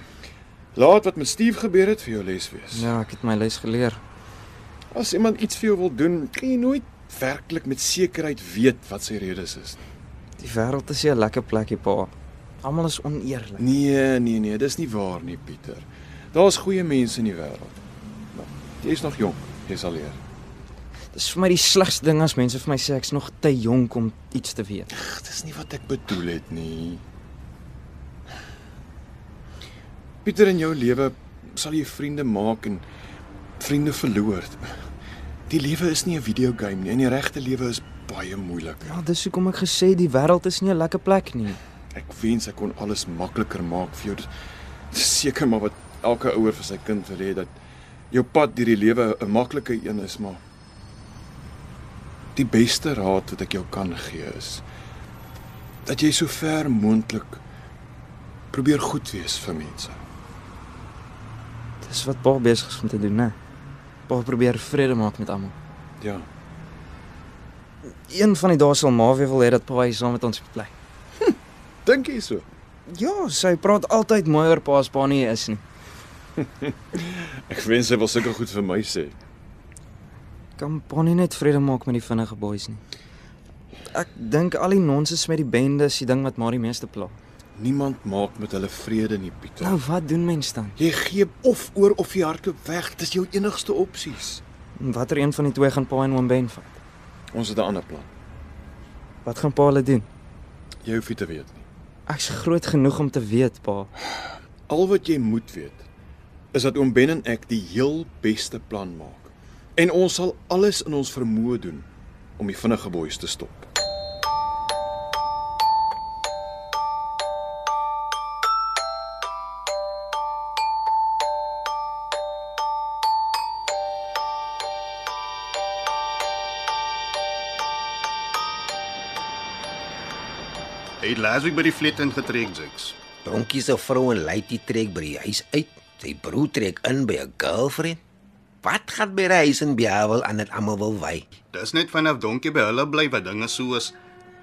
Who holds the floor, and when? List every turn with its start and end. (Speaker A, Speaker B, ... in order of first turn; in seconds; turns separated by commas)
Speaker A: 0.8-2.9, Speaker B: 2.7-4.0, Speaker A: 4.9-9.8, Speaker B: 10.4-13.6, Speaker A: 13.6-17.8, Speaker A: 18.3-20.2, Speaker B: 21.1-24.9, Speaker A: 24.9-27.0, Speaker A: 30.2-32.8, Speaker A: 33.6-34.6, Speaker A: 35.5-39.0, Speaker B: 38.8-41.6, Speaker A: 41.9-44.3, Speaker A: 44.9-47.5, Speaker A: 48.1-50.4, Speaker A: 52.4-54.6, Speaker A: 55.8-57.4, Speaker A: 58.5-60.0, Speaker B: 61.8-63.4, Speaker B: 64.1-65.5, Speaker A: 66.0-66.3, Speaker B: 67.9-70.7, Speaker A: 71.8-72.4, Speaker B: 72.9-75.6, Speaker A: 76.4-79.2, Speaker B: 80.6-82.8, Speaker B: 83.9-87.2, Speaker A: 87.5-89.8, Speaker B: 89.6-90.8, Speaker A: 90.8-94.4, Speaker B: 94.8-96.8, Speaker A: 97.3-98.1, Speaker B: 99.2-100.1, Speaker A: 100.8-101.7, Speaker B: 102.1-103.9, Speaker A: 104.7-105.8, Speaker A: 106.5-111.9, Speaker A: 112.4-113.7, Speaker C: 131.0-132.9, Speaker D: 133.2-138.0, Speaker D: 138.6-141.2, Speaker C: 141.5-143.9